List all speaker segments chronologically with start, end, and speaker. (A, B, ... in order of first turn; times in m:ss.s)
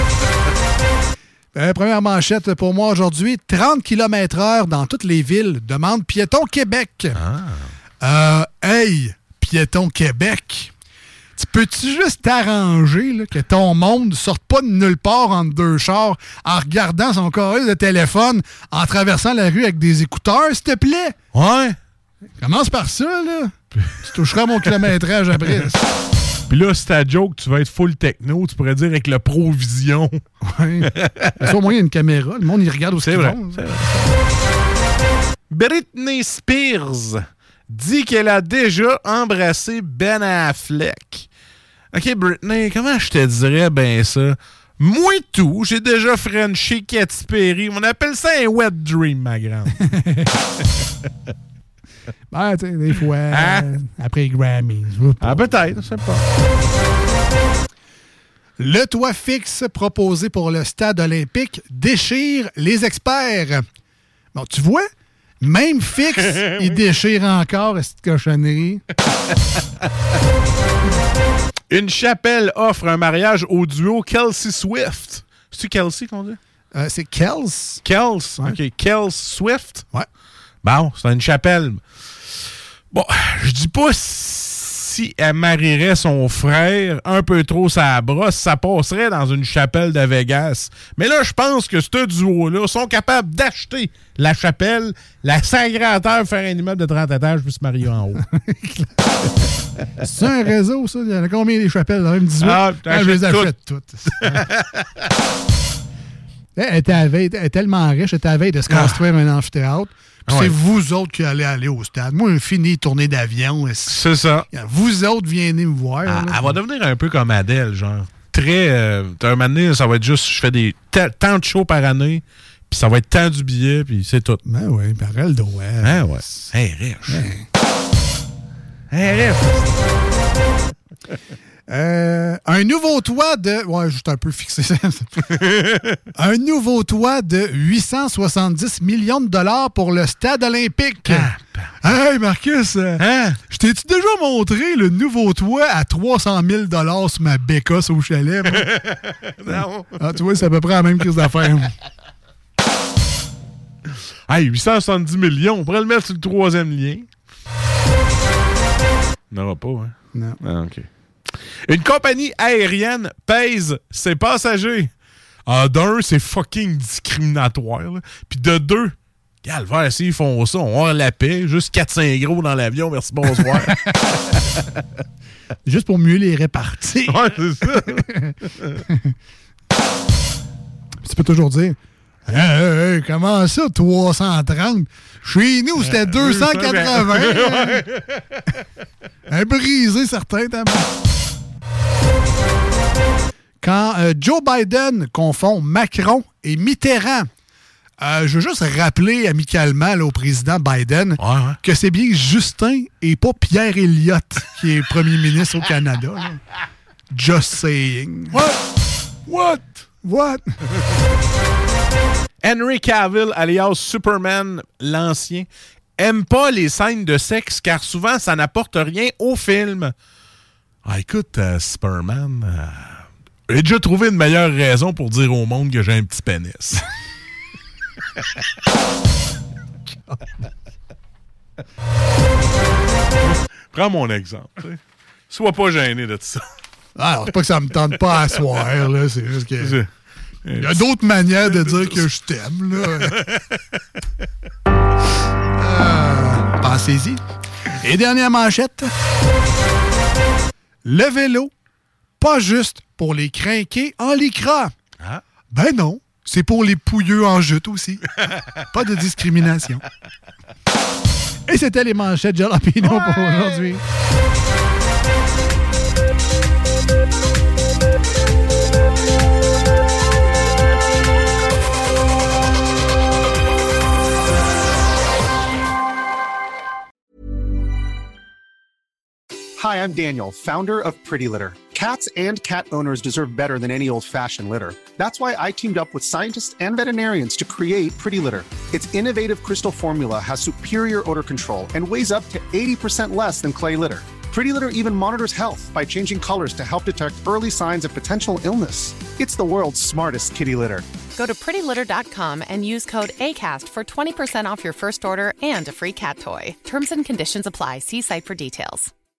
0:01.5-0:07.2 A
0:07.1-0:07.7 B
0:08.0-0:10.7 A
0:11.4-0:21.1 A
0:21.3-0:21.8 B
0:22.4-0:25.9 A
0:26.5-0:30.2 B
0:30.4-0:33.7 A
0:30.8-0:31.5 B
0:33.0-0:34.1 B
0:35.5-0:41.3 B
0:41.9-0:49.8 B
0:49.8-0:50.4 A
0:52.3-0:55.6 A
0:53.3-0:53.7 B
0:55.2-0:56.2 B
0:58.6-1:03.6 A
1:04.3-1:04.9 A
1:05.4-1:08.8 A
1:11.7-1:16.4 B
1:16.7-1:17.8 A
1:17.8-1:19.8 B
1:20.6-1:21.8 B
1:22.9-1:38.2 B
1:38.3-1:39.1 A
1:40.0-1:44.5 A
1:42.4-1:43.5 B
1:44.1-1:44.9 B
1:46.5-1:56.6 A
1:48.7-1:49.0 B
1:50.3-1:50.6 B
1:53.9-1:54.4 B
1:56.0-2:04.4 B
2:04.4-2:06.5 A
2:05.8-2:07.3 B
2:07.1-2:07.4 A
2:08.9-2:09.8 B
2:11.7-2:15.4 A
2:15.4-2:16.0 B
2:16.1-2:28.7 A
2:21.0-2:21.8 B
2:23.0-2:23.4 B
2:28.5-2:30.0 B
2:29.5-2:31.7 A
2:34.3-2:37.1 B
2:39.3-2:44.9 B
2:40.1-2:40.4 A
2:45.4-2:53.8 B
2:53.6-2:54.1 A
2:55.6-2:58.3 A
2:57.1-2:58.1 B
2:58.6-2:58.8 B
3:01.0-3:07.8 A
3:05.8-3:08.4 B
3:09.3-3:10.9 A
3:13.6-3:17.3 A
3:18.0-3:26.4 A
3:21.2-3:21.6 B
3:27.1-3:28.4 A
3:28.3-3:28.6 B
3:29.3-3:29.8 B
3:30.0-3:30.5 A
3:32.4-3:39.9 B
3:40.8-3:46.8 B
3:53.2-3:56.5 B
3:57.0-3:59.8 A
3:59.6-3:59.9 B
4:00.4-4:00.8 B
4:00.6-4:03.2 A
4:01.5-4:02.0 B
4:02.9-4:03.6 B
4:05.6-4:07.2 A
4:07.8-4:08.9 A
4:10.8-4:11.5 A
4:12.2-4:14.7 A
4:15.5-4:18.1 A
4:18.7-4:19.8 A
4:21.5-4:23.8 A
4:22.8-4:23.8 B
4:39.6-5:00.8 C
5:01.1-5:08.9 D